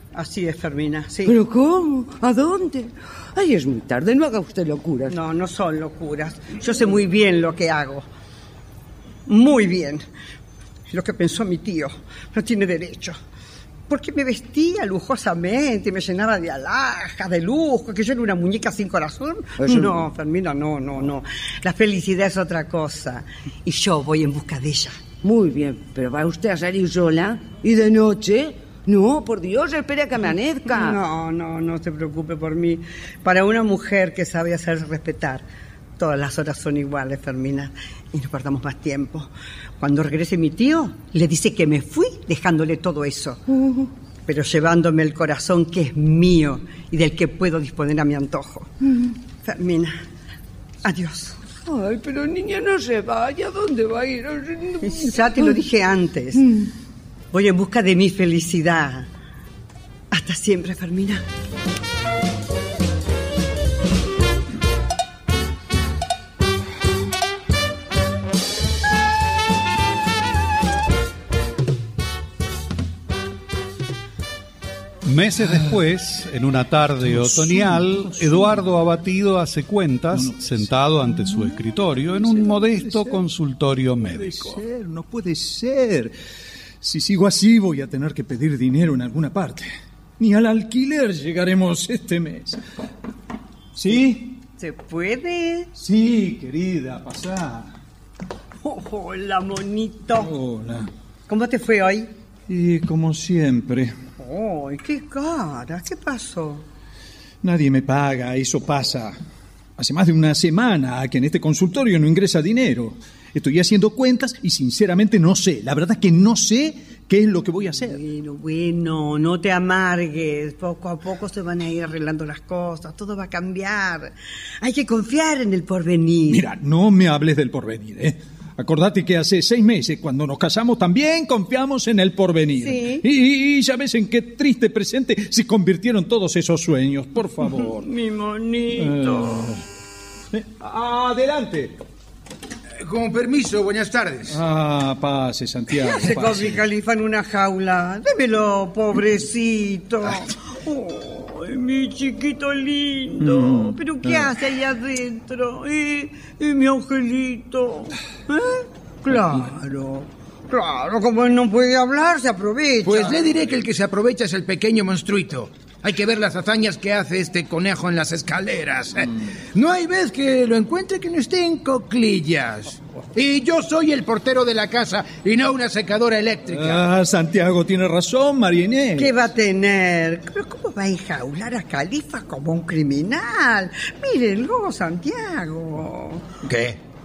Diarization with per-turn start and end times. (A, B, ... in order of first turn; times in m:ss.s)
0:00.1-0:01.4 A
0:01.2-0:05.2 B
0:05.1-0:08.1 A
0:09.3-0:10.0 A
0:10.9-0:13.2 A
0:13.9-0:25.0 A
0:19.6-0:20.0 B
0:25.2-0:31.0 B
0:30.7-0:35.4 A
0:36.0-0:43.4 A
0:44.3-0:48.8 A
0:49.4-0:50.0 A
0:50.8-0:51.4 A
0:51.6-0:55.5 B
0:54.8-0:56.5 A
0:57.3-0:59.1 A
1:00.1-1:01.2 A
1:15.1-1:24.6 C
1:15.4-1:15.8 D
1:17.0-1:18.7 D
1:20.1-1:23.2 D
1:24.0-1:26.2 D
1:26.8-1:32.6 D
1:33.7-1:34.4 D
1:34.6-1:35.7 A
1:35.8-1:37.8 D
1:38.6-1:40.3 A
1:40.1-1:40.9 D
1:41.3-1:42.1 A
1:42.5-1:44.0 D
1:44.2-1:46.6 A
1:47.4-1:49.2 D
1:49.8-1:58.0 D
1:57.8-2:06.4 A
2:06.3-2:17.8 D
2:12.6-2:13.1 A
2:17.6-2:19.5 A
2:18.8-2:19.6 D
2:20.3-2:21.8 D
2:22.8-2:24.4 E
2:24.3-2:26.6 D
2:25.8-2:43.4 A
2:33.2-2:34.3 D
2:42.8-2:56.8 E
2:56.5-2:59.3 D
2:59.0-3:06.3 A